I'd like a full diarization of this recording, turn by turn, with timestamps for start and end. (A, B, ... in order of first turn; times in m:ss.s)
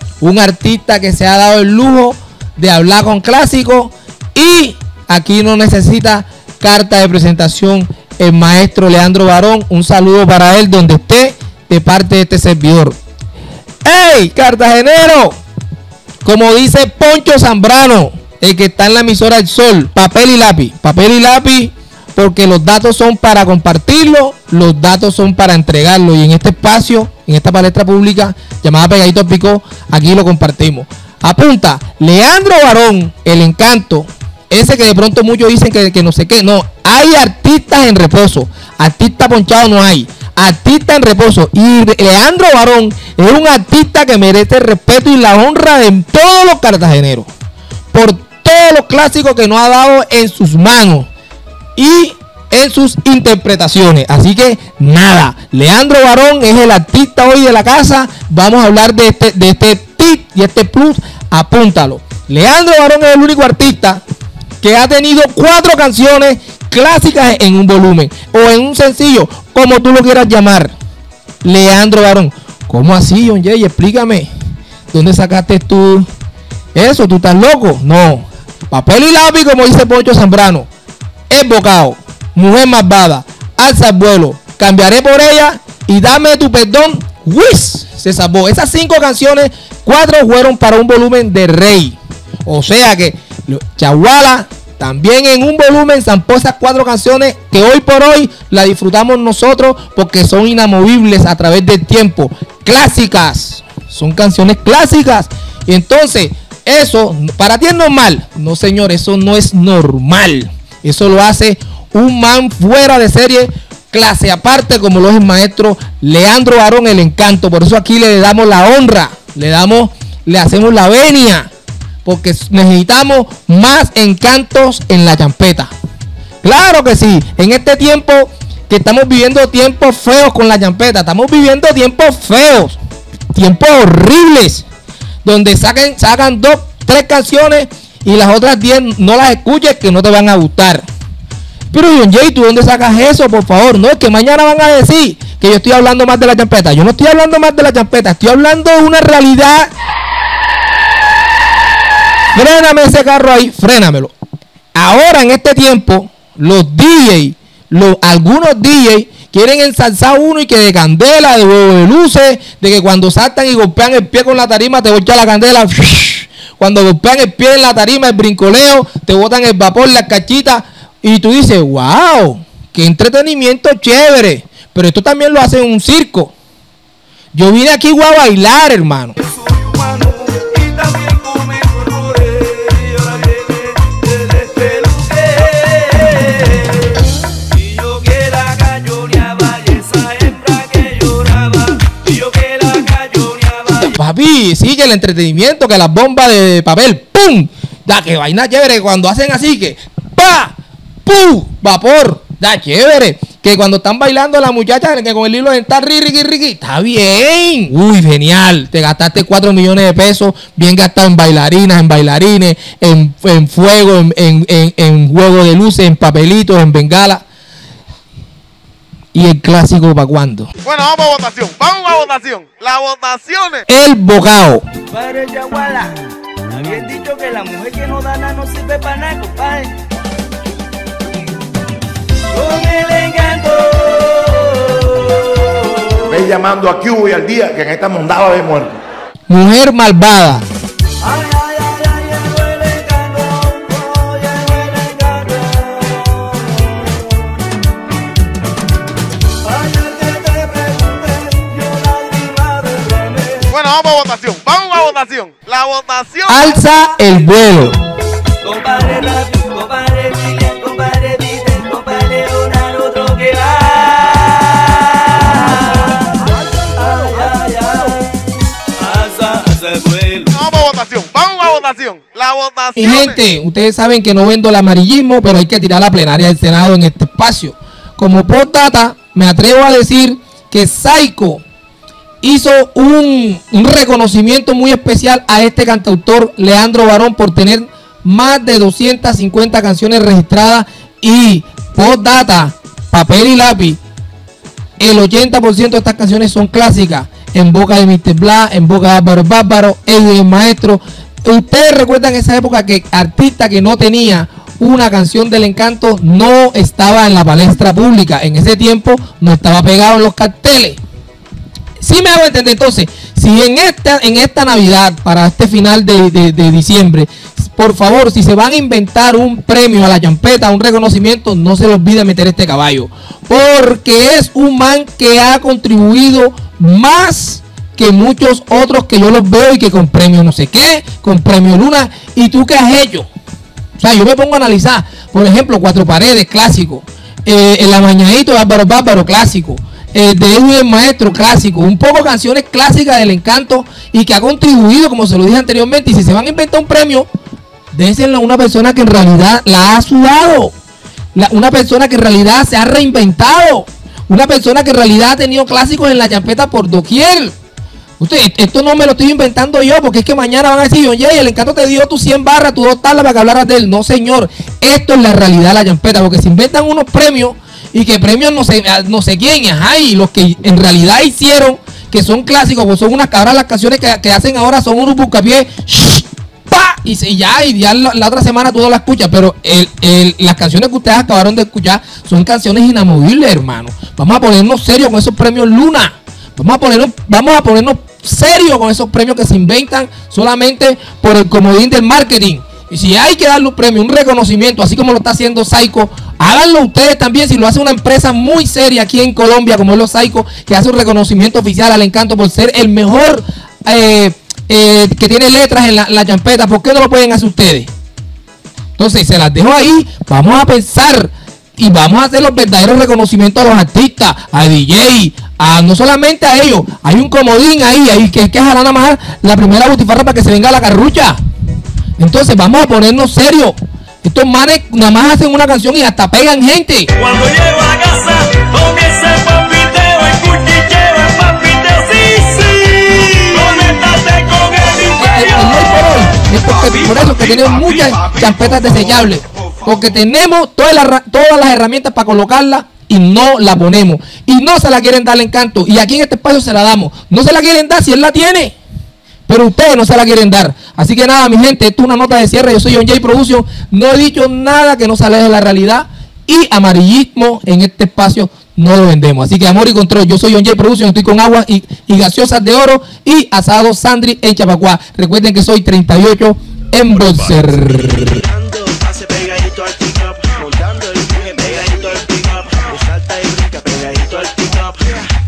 0:00.2-0:13.0 A
0:13.8-0:15.4 A
0:16.2-0:47.3 A
0:47.9-0:51.1 A
0:51.8-1:04.0 A
1:04.6-1:10.7 A
1:11.4-1:14.3 A
1:14.9-1:16.1 A
1:16.7-1:20.7 A
1:21.3-2:01.5 A
2:02.0-2:05.7 A
2:06.4-2:12.8 A
2:13.3-2:14.6 A
2:15.2-2:20.8 A
2:21.7-2:29.7 A
2:32.3-2:34.1 A
2:34.8-2:56.3 A
2:57.3-2:59.2 A
2:59.2-3:13.9 B
3:13.8-3:37.2 A
3:39.1-3:40.5 A
3:40.6-3:43.7 C
3:43.7-3:44.6 A
3:44.9-3:49.8 B
3:52.3-3:56.1 B
3:56.1-3:58.8 D
3:59.3-4:00.4 A
4:01.0-4:07.5 B
4:09.4-4:13.5 B
4:13.5-4:16.6 C
4:16.3-4:17.8 A
4:18.4-4:28.1 B
4:28.8-4:30.3 B
4:30.3-4:33.2 C
4:32.8-4:41.4 A
4:42.2-4:53.8 A
4:54.8-5:10.8 A
5:11.8-5:33.1 A
5:33.8-5:47.1 A
5:47.7-5:50.5 A
5:51.2-5:57.3 A
5:58.0-6:47.7 A
6:48.8-7:01.2 A
7:02.0-7:06.9 A
7:07.0-7:15.8 B
7:15.0-7:28.6 A
7:29.3-7:48.2 A
7:48.3-7:54.9 B